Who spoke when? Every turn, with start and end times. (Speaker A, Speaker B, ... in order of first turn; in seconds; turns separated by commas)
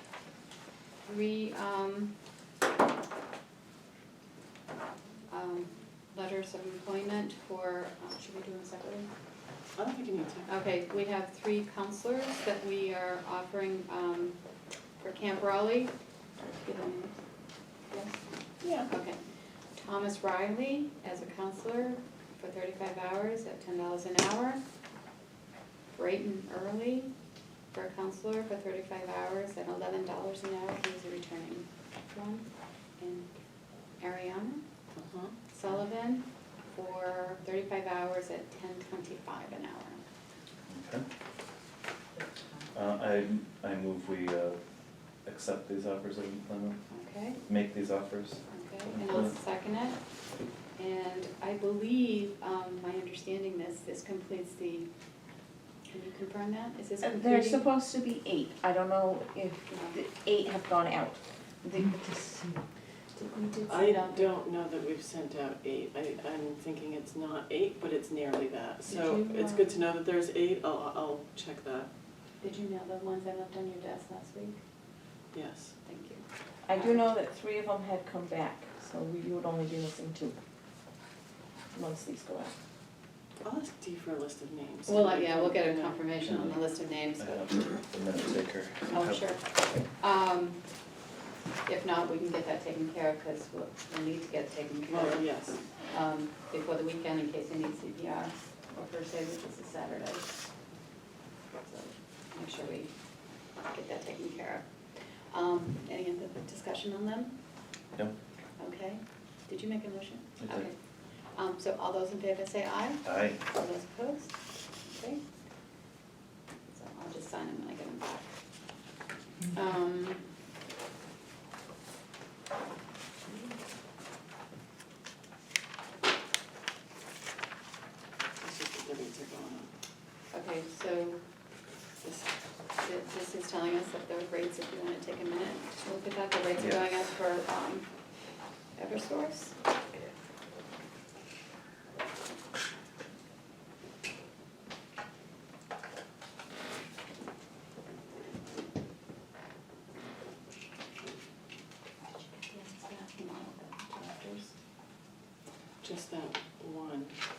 Speaker A: 1.0-2.1, Speaker A: 5.3-9.1, Speaker B: 9.8-10.5, Speaker A: 10.5-14.4, Speaker A: 15.0-17.2, Speaker A: 17.9-18.2, Speaker B: 18.6-18.9, Speaker A: 18.9-19.2, Speaker A: 19.8-24.6, Speaker A: 25.9-27.1, Speaker A: 27.7-32.5, Speaker A: 33.0-33.3, Speaker A: 34.0-34.6, Speaker B: 35.0-35.3, Speaker A: 35.5-40.0, Speaker C: 40.7-41.0, Speaker C: 42.7-44.6, Speaker C: 45.2-46.8, Speaker A: 46.9-47.4, Speaker C: 47.5-49.3, Speaker A: 48.5-50.0, Speaker A: 50.8-54.9, Speaker A: 55.9-57.7, Speaker D: 57.0-62.6, Speaker A: 59.7-60.0, Speaker A: 63.1-64.3, Speaker B: 63.7-71.9, Speaker D: 68.9-69.7, Speaker A: 72.4-74.6, Speaker B: 75.3-75.7, Speaker A: 75.8-77.0, Speaker D: 76.7-80.3, Speaker D: 81.7-82.5, Speaker B: 83.4-86.0, Speaker A: 84.9-87.6, Speaker C: 86.2-86.6, Speaker C: 87.2-89.3, Speaker A: 88.9-89.4, Speaker A: 89.9-90.6, Speaker A: 91.7-95.2, Speaker B: 94.9-95.6, Speaker A: 95.9-100.4, Speaker A: 101.6-102.9, Speaker A: 103.6-104.7, Speaker A: 105.3-107.3, Speaker A: 108.6-110.7, Speaker C: 110.4-110.7, Speaker A: 111.3-115.2, Speaker C: 113.0-113.4, Speaker A: 116.7-118.3, Speaker A: 119.5-120.2, Speaker B: 128.4-129.7, Speaker A: 130.3-131.2, Speaker B: 132.0-132.3, Speaker A: 132.8-137.9, Speaker C: 136.6-137.0, Speaker A: 138.8-139.6, Speaker A: 152.4-154.5, Speaker B: 155.8-157.1